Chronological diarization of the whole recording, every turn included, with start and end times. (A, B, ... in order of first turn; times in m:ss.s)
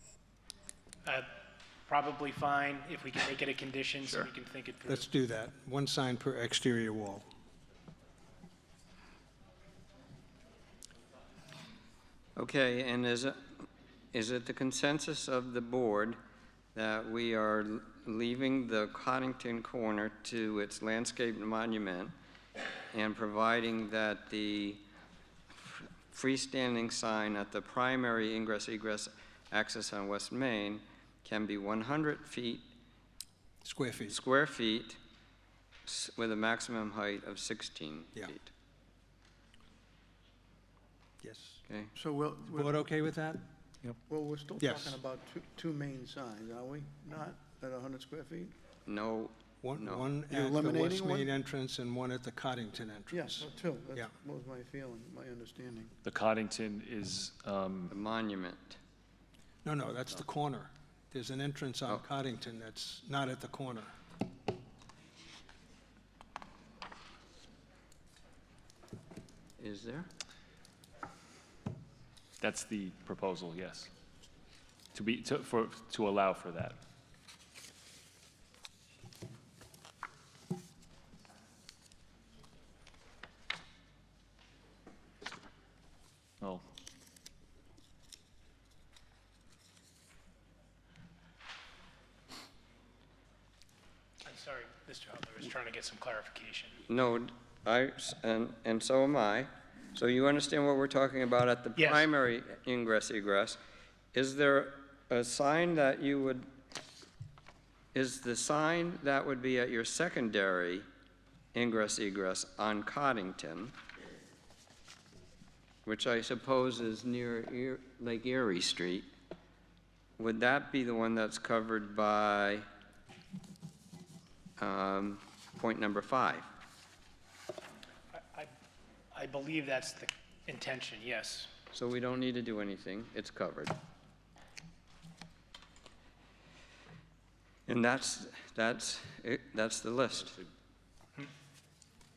0:01.9-0:04.8 A
0:04.9-0:07.2 B
0:12.4-0:13.6 C
0:14.1-0:16.2 C
0:16.7-0:22.1 C
0:22.9-0:24.8 C
0:25.6-0:32.6 C
0:33.6-0:34.2 B
0:34.1-0:35.0 C
0:35.8-0:38.5 C
0:41.2-0:41.6 B
0:41.7-0:41.9 C
0:42.0-0:42.7 D
0:42.5-0:43.5 B
0:44.1-0:48.5 D
0:44.6-0:44.9 B
0:48.8-0:50.0 C
0:49.6-0:54.1 B
0:50.3-0:51.3 D
0:53.1-0:55.9 D
0:56.0-0:57.9 E
0:57.9-0:58.8 C
0:59.6-1:03.9 B
1:09.6-1:10.1 C
1:12.4-1:13.9 E
1:14.9-1:16.8 E
1:34.2-1:36.7 A
1:36.9-1:43.6 C
1:44.1-1:46.5 C
1:47.9-1:50.9 C
1:51.5-1:53.7 C
1:55.8-1:59.1 C
2:00.2-2:02.6 C
2:04.6-2:06.5 C
2:08.2-2:08.5 A
2:09.1-2:11.5 A
2:11.7-2:13.7 C
2:17.7-2:20.4 C